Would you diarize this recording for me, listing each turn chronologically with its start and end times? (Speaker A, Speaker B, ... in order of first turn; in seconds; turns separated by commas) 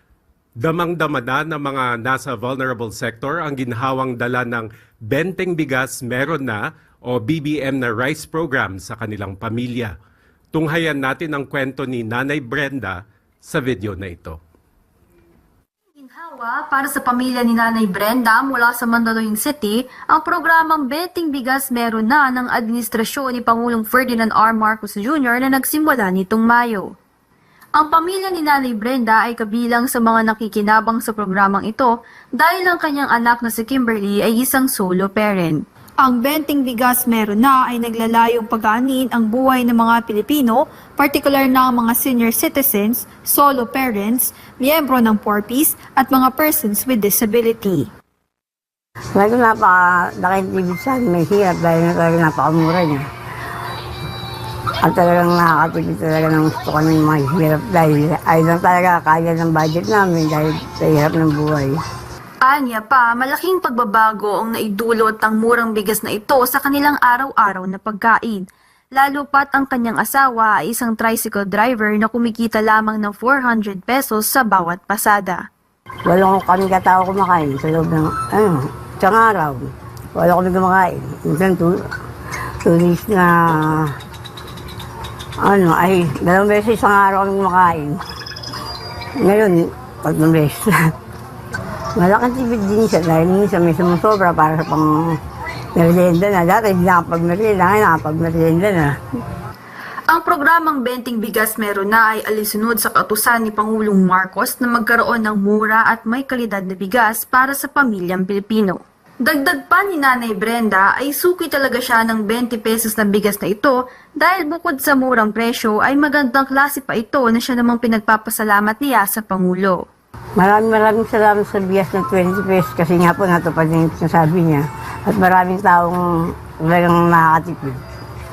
Speaker A: 0.6-9.9, Speaker A: 10.5-14.4, Speaker B: 15.9-26.9, Speaker B: 27.8-47.9, Speaker C: 49.1-53.0, Speaker C: 54.8-61.8, Speaker B: 62.4-75.4, Speaker C: 76.1-81.8, Speaker C: 82.6-84.0, Speaker C: 85.4-88.0, Speaker C: 89.2-90.9, Speaker C: 92.0-95.2, Speaker C: 95.7-99.0, Speaker B: 100.1-119.8, Speaker C: 120.4-127.8